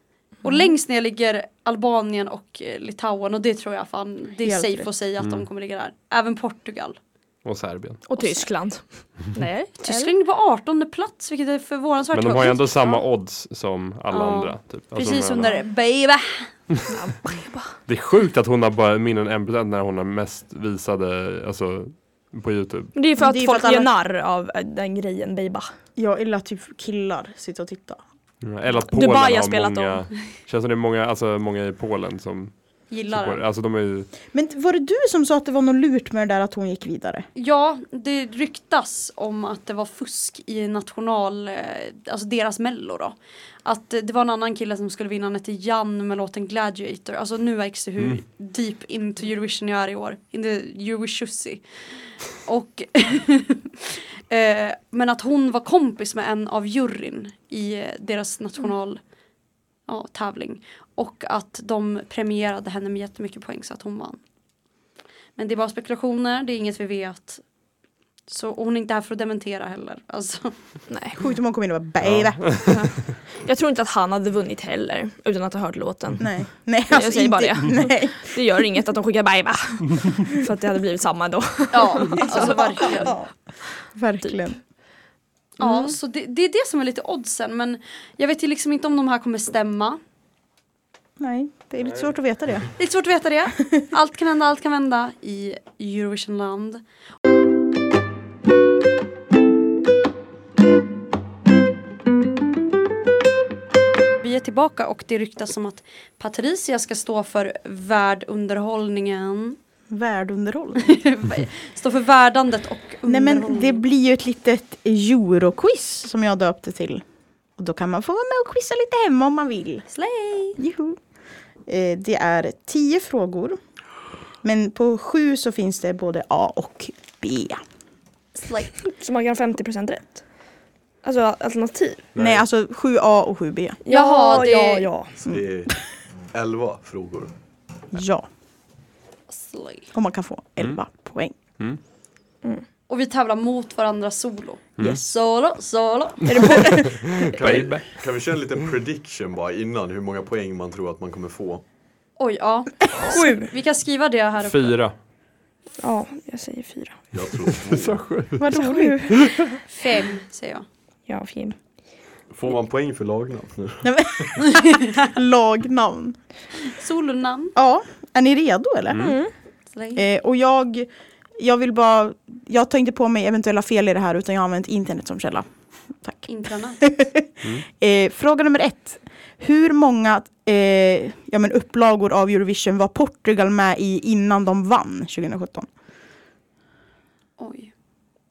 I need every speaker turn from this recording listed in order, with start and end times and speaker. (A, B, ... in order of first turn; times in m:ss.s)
0:00.4-0:07.0 A
0:04.4-0:04.9 B
0:05.2-0:05.5 C
0:07.4-0:08.0 C
0:08.0-0:10.1 D
0:08.2-0:08.5 A
0:09.8-0:13.0 A
0:12.1-0:15.5 C
0:14.1-0:16.5 A
0:16.9-0:17.7 D
0:17.9-0:22.9 C
0:22.9-0:25.7 D
0:23.2-0:23.9 B
0:26.0-0:28.0 B
0:28.4-0:32.5 C
0:28.9-0:30.1 D
0:32.9-0:33.4 A
0:33.1-0:34.1 C
0:34.3-0:37.3 B
0:37.4-0:51.6 A
0:52.3-0:59.0 A
0:59.9-1:04.2 A
1:05.4-1:07.4 A
1:08.3-1:10.5 A
1:10.9-1:11.2 D
1:11.2-1:12.8 B
1:12.0-1:12.4 C
1:12.7-1:16.3 D
1:16.2-1:18.4 B
1:16.9-1:23.1 D
1:21.7-1:23.2 A
1:22.2-1:23.3 B
1:23.9-1:24.6 B
1:25.6-1:30.0 A
1:31.2-1:32.7 B
1:32.8-1:36.8 A
1:44.2-1:49.6 A
1:49.9-1:51.0 B
1:50.8-1:53.8 A
1:53.0-1:57.0 B
1:57.6-1:59.8 B
1:59.9-2:00.6 A
2:00.6-2:01.0 B
2:01.6-2:03.6 B
2:04.4-2:07.6 B
2:08.3-2:08.7 A
2:08.8-2:10.2 D
2:11.0-2:12.1 D
2:12.1-2:12.4 C
2:12.2-2:13.8 B
2:13.8-2:15.1 D
2:13.9-2:14.9 A
2:15.2-2:15.8 E
2:16.3-2:17.3 E
2:17.9-2:18.2 B
2:19.3-2:19.9 A
2:19.9-2:21.3 B
2:22.9-2:26.8 A
2:26.3-2:26.7 D
2:26.3-2:27.2 B
2:26.3-2:28.0 C
2:27.3-2:31.6 E
2:32.2-2:34.8 A
2:33.0-2:33.5 D
2:34.4-2:34.9 C
2:35.8-2:37.0 D
2:37.1-2:38.0 E
2:37.6-2:38.5 C
2:38.4-2:39.4 B
2:38.5-2:39.1 D
2:39.2-2:39.4 C
2:39.7-2:40.6 A
2:41.1-2:41.6 D
2:42.3-2:44.3 E
2:43.8-2:46.2 B
2:44.5-2:45.1 A
2:46.6-2:47.6 A
2:47.6-2:49.1 B
2:48.9-2:49.1 C
2:49.0-2:49.3 D
2:49.7-2:50.0 A
2:49.9-2:55.4 B
2:56.0-2:56.3 B
2:56.2-2:56.9 A
2:56.8-3:05.7 B
3:07.4-3:07.7 A